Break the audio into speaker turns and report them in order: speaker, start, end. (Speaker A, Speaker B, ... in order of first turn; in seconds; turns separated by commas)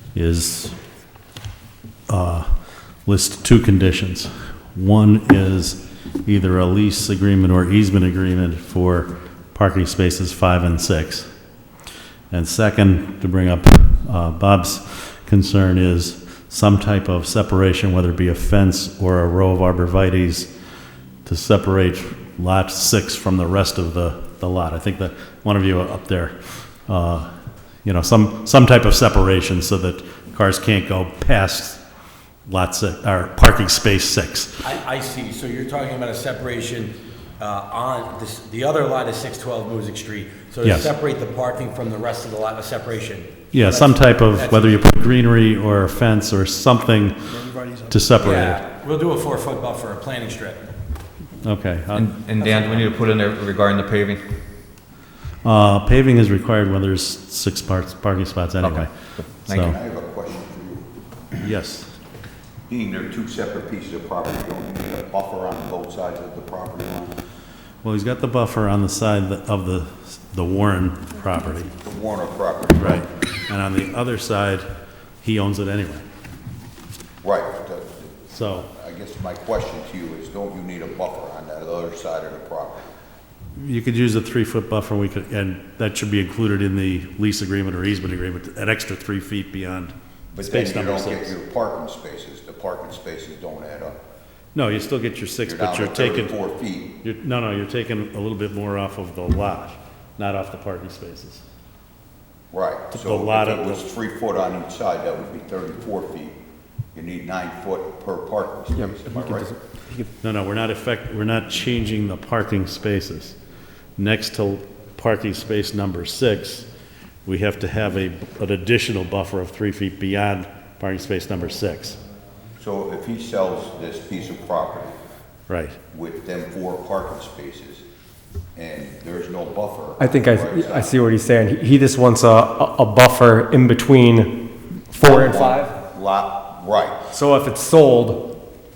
Speaker A: 0.1-0.8, Speaker A: 2.1-11.3, Speaker A: 12.3-20.5, Speaker A: 21.2-27.3, Speaker A: 27.8-31.8, Speaker A: 32.5-34.5, Speaker B: 34.6-45.0, Speaker A: 40.6-40.9, Speaker A: 43.5-48.6, Speaker B: 48.2-50.7, Speaker A: 51.4-52.1, Speaker C: 51.9-54.2, Speaker B: 52.4-52.8, Speaker A: 55.4-59.8, Speaker C: 58.6-59.8, Speaker D: 59.5-60.9, Speaker A: 61.4-61.9, Speaker D: 62.7-67.2, Speaker A: 67.8-71.7, Speaker D: 71.8-73.1, Speaker A: 72.8-74.7, Speaker A: 75.2-76.0, Speaker D: 77.2-82.9, Speaker A: 78.3-78.7, Speaker A: 83.5-91.3, Speaker D: 90.3-93.9, Speaker A: 94.5-96.4, Speaker D: 95.4-96.9, Speaker A: 97.0-101.4, Speaker D: 102.5-106.3, Speaker A: 102.9-103.8, Speaker D: 106.9-109.5, Speaker E: 108.7-110.1, Speaker A: 110.2-113.4, Speaker A: 114.0-116.7, Speaker A: 117.2-122.0, Speaker D: 122.6-125.0, Speaker A: 125.5-125.8, Speaker D: 125.9-127.8, Speaker D: 128.5-130.9, Speaker E: 130.0-135.7, Speaker D: 135.0-137.0, Speaker E: 137.1-138.4